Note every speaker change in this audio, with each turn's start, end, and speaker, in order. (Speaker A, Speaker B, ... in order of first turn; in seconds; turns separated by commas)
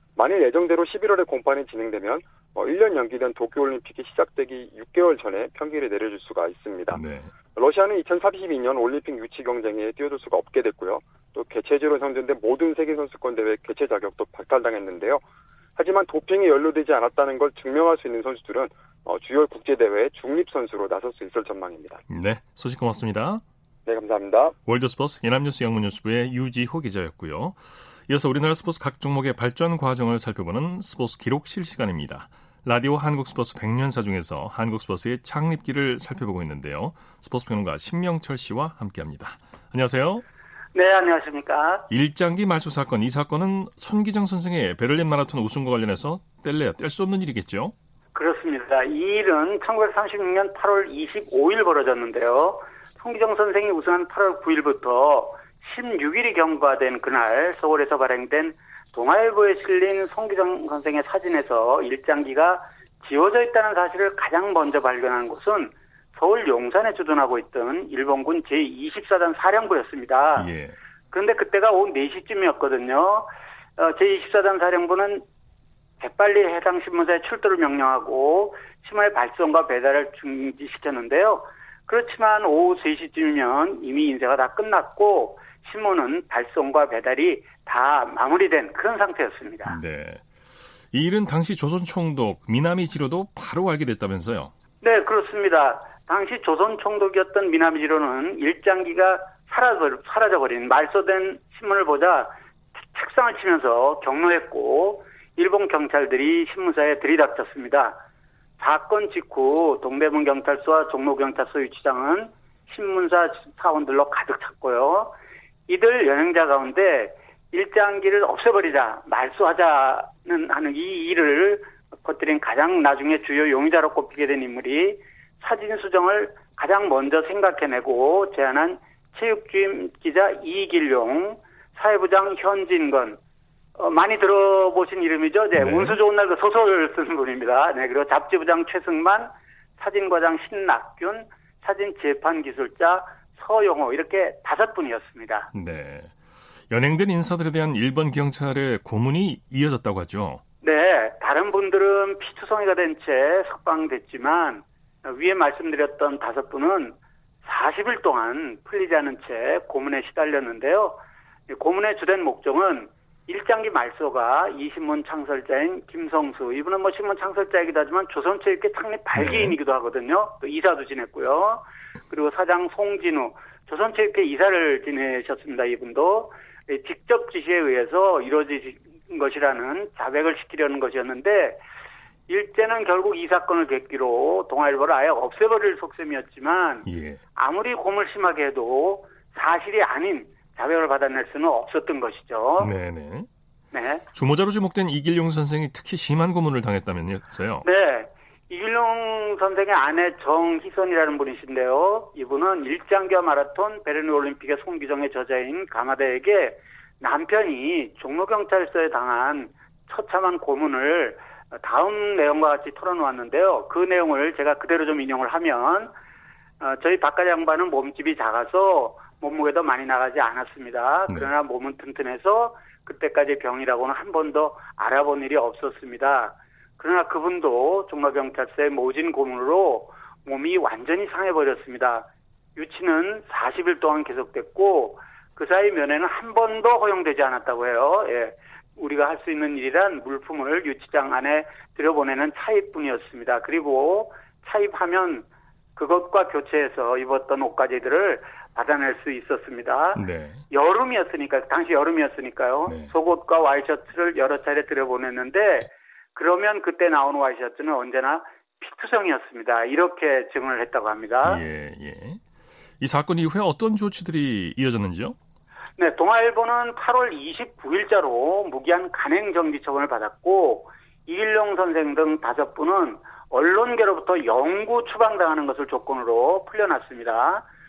Speaker A: 0.1-7.0, Speaker B: 6.9-7.3, Speaker A: 7.5-15.2, Speaker A: 15.8-22.0, Speaker B: 22.1-23.4, Speaker A: 23.9-24.5, Speaker B: 24.6-40.2, Speaker C: 40.7-41.9, Speaker B: 41.9-47.7, Speaker C: 48.1-70.5, Speaker B: 70.3-70.8, Speaker C: 71.1-75.2, Speaker C: 76.0-89.8, Speaker B: 89.6-90.2, Speaker B: 90.9-94.5, Speaker C: 94.8-108.0, Speaker C: 108.6-115.2, Speaker C: 115.7-133.2, Speaker C: 133.8-145.5, Speaker B: 135.5-136.0, Speaker B: 145.5-146.1, Speaker B: 146.7-150.4, Speaker C: 150.6-181.6, Speaker B: 169.1-169.6, Speaker C: 182.3-192.7, Speaker B: 186.8-187.2, Speaker B: 192.6-193.3, Speaker C: 193.7-194.0, Speaker B: 194.1-197.7, Speaker C: 197.6-215.9, Speaker C: 216.6-261.4, Speaker B: 221.1-221.3, Speaker B: 249.9-250.4, Speaker B: 252.7-252.9, Speaker B: 261.2-262.2, Speaker B: 262.8-265.1, Speaker C: 265.8-277.4